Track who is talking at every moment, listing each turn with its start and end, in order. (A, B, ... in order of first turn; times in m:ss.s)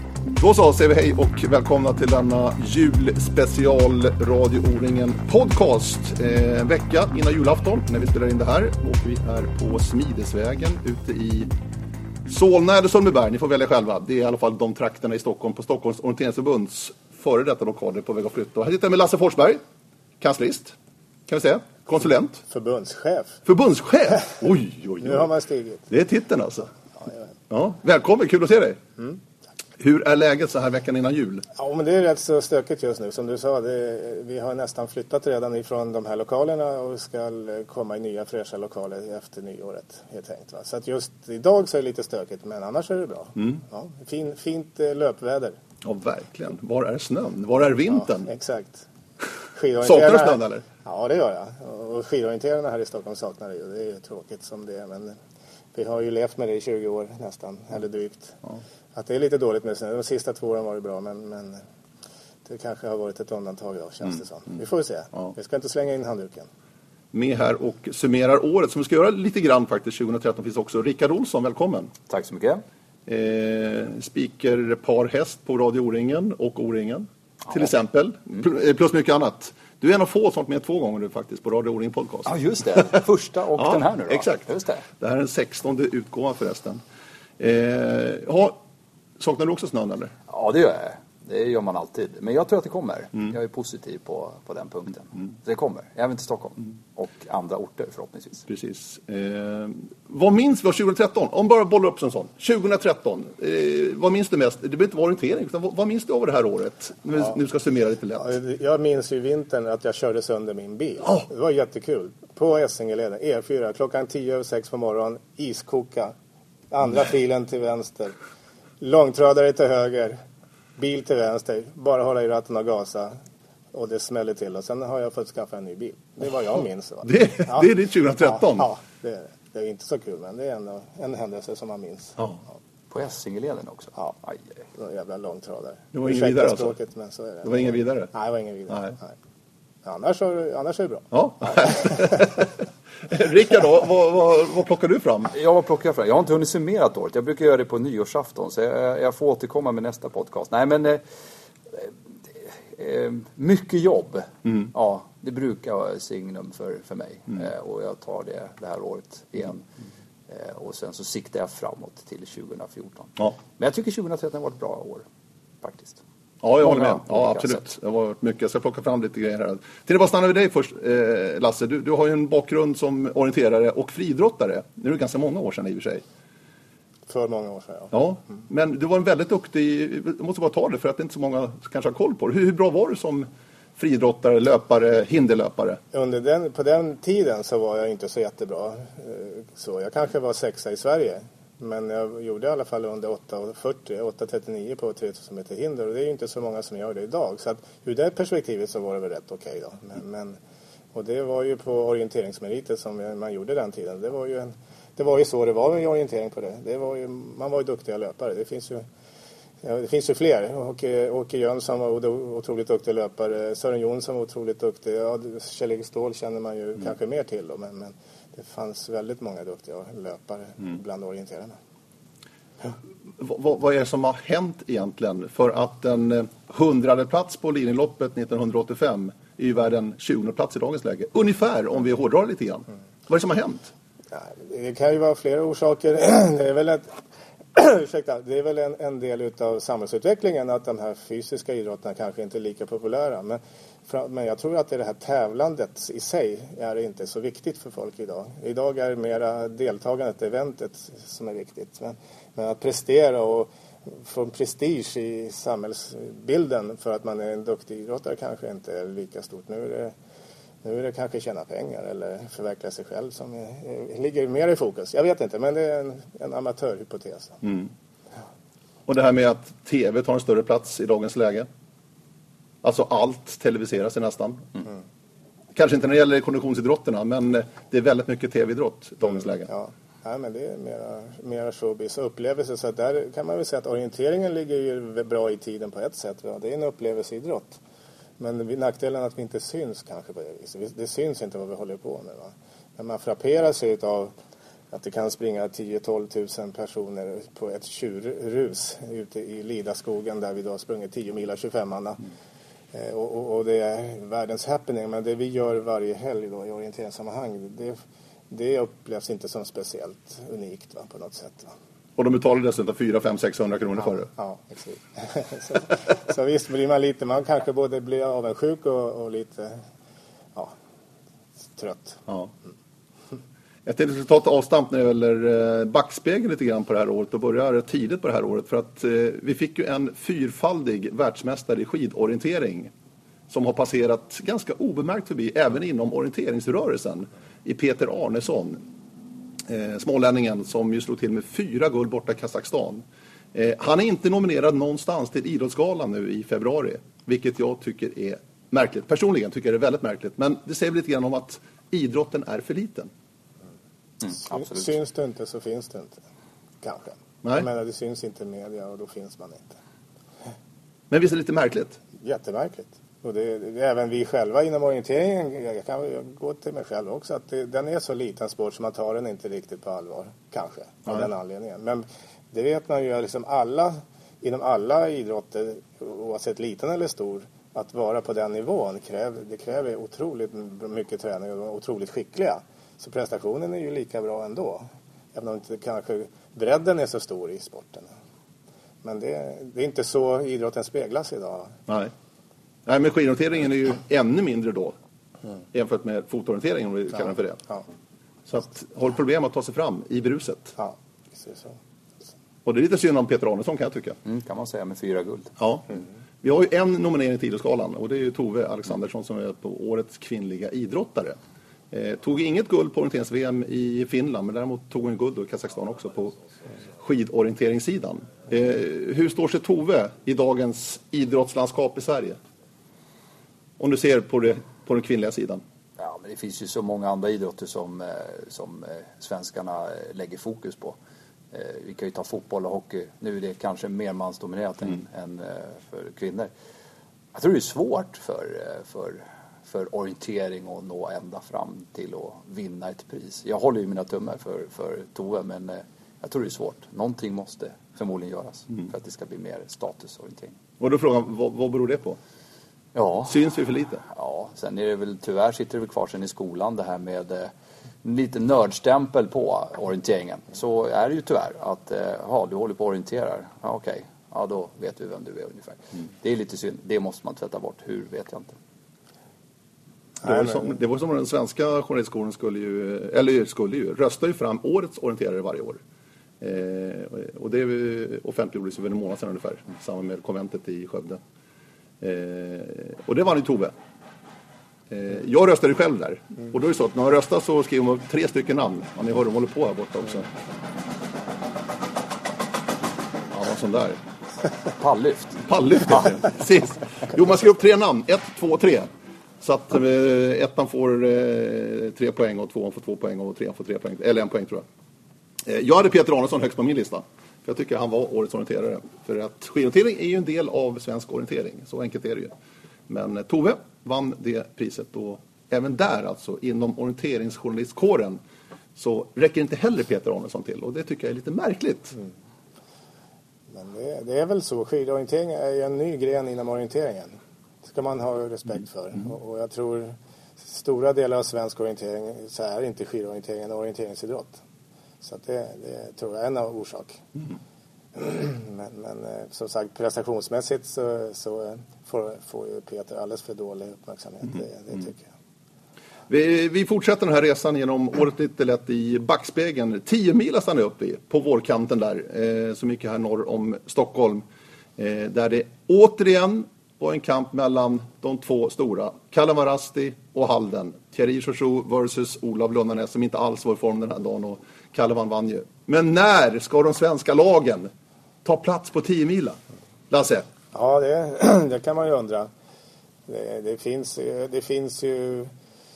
0:00.4-0:11.5 A
0:12.3-0:19.6 A
0:20.2-0:20.8 A
0:21.3-0:22.4 A
0:22.4-0:23.4 B
0:23.4-0:25.3 A
0:25.0-0:25.9 B
0:25.9-0:26.7 A
0:27.5-0:28.8 A
0:29.8-0:31.4 A
0:31.6-0:45.6 B
0:45.8-0:48.3 A
0:48.2-0:48.9 B
0:49.5-0:55.2 B
0:49.8-0:50.6 A
0:55.7-0:58.4 B
0:58.9-1:01.6 B
1:02.4-1:06.5 B
1:07.1-1:11.9 A
1:12.1-1:12.6 C
1:13.0-1:22.9 A
1:22.2-1:24.8 C
1:23.6-1:24.5 A
1:25.0-1:26.8 A
1:27.4-1:28.6 A
1:29.2-1:30.1 A
1:30.3-1:38.4 C
1:38.5-1:48.4 A
1:48.2-1:56.1 B
1:56.7-1:58.1 B
1:58.8-2:00.2 B
2:00.8-2:03.2 B
2:03.7-2:07.7 B
2:07.0-2:08.7 A
2:08.2-2:12.2 B
2:12.9-2:14.4 C
2:14.8-2:19.1 B
2:15.9-2:16.8 A
2:17.4-2:18.1 A
2:19.8-2:22.2 B
2:21.1-2:25.3 A
2:25.3-2:31.0 C
2:31.7-2:39.6 C
2:34.4-2:34.7 A
2:40.3-2:45.1 C
2:45.6-2:46.0 C
2:46.4-2:56.0 A
2:46.6-2:47.6 C
2:57.1-2:57.9 B
2:57.9-3:05.8 A
3:05.9-3:20.4 B
3:20.9-3:28.8 B
3:29.6-3:41.6 B
3:43.2-3:53.7 A
3:54.1-3:57.0 B
3:57.5-4:19.9 B
4:20.6-4:27.4 B
4:27.4-4:27.7 A
4:28.9-4:31.5 A
4:32.6-4:34.5 A
4:35.5-4:39.5 A
4:39.5-4:47.6 B
4:48.2-4:54.1 B
4:54.7-5:02.0 B
5:02.7-5:11.5 B
5:12.0-5:14.1 A
5:14.1-5:19.6 B
5:21.6-5:22.0 B
5:23.6-5:32.7 A
5:33.3-5:38.6 A
5:39.5-5:52.9 A
5:54.0-5:56.0 B
5:56.6-5:59.6 B
6:00.9-6:01.8 A
6:02.0-6:27.9 B
6:28.8-6:31.6 B
6:31.7-6:31.9 A
6:32.7-6:34.7 A
6:35.5-6:37.4 A
6:38.3-6:40.5 A
6:40.6-6:41.6 B
6:42.4-6:44.0 A
6:44.0-6:45.3 C
6:45.4-6:51.2 A
6:51.7-6:56.2 A
6:56.7-7:02.2 A
7:03.6-7:05.4 A
7:05.8-7:10.8 C
7:11.3-7:16.3 C
7:17.1-7:30.4 C
7:30.6-7:32.0 A
7:32.7-7:33.2 C
7:33.1-7:33.8 A
7:33.9-7:37.3 C
7:37.8-7:48.4 C
7:50.0-7:55.6 A
7:56.2-8:01.0 A
8:01.8-8:03.5 A
8:04.7-8:10.1 A
8:13.1-8:13.8 A
8:14.6-8:15.2 C
8:15.2-8:18.7 A
8:19.2-8:24.4 A
8:25.2-8:32.1 A
8:32.7-8:38.0 A
8:38.6-8:41.8 A
8:43.3-8:54.2 B
8:54.8-8:56.8 B
8:57.8-9:04.9 B
9:05.9-9:14.0 A
9:14.6-9:27.5 A
9:28.0-9:29.2 A
9:29.7-9:30.1 A
9:30.3-9:32.1 B
9:32.9-9:35.1 B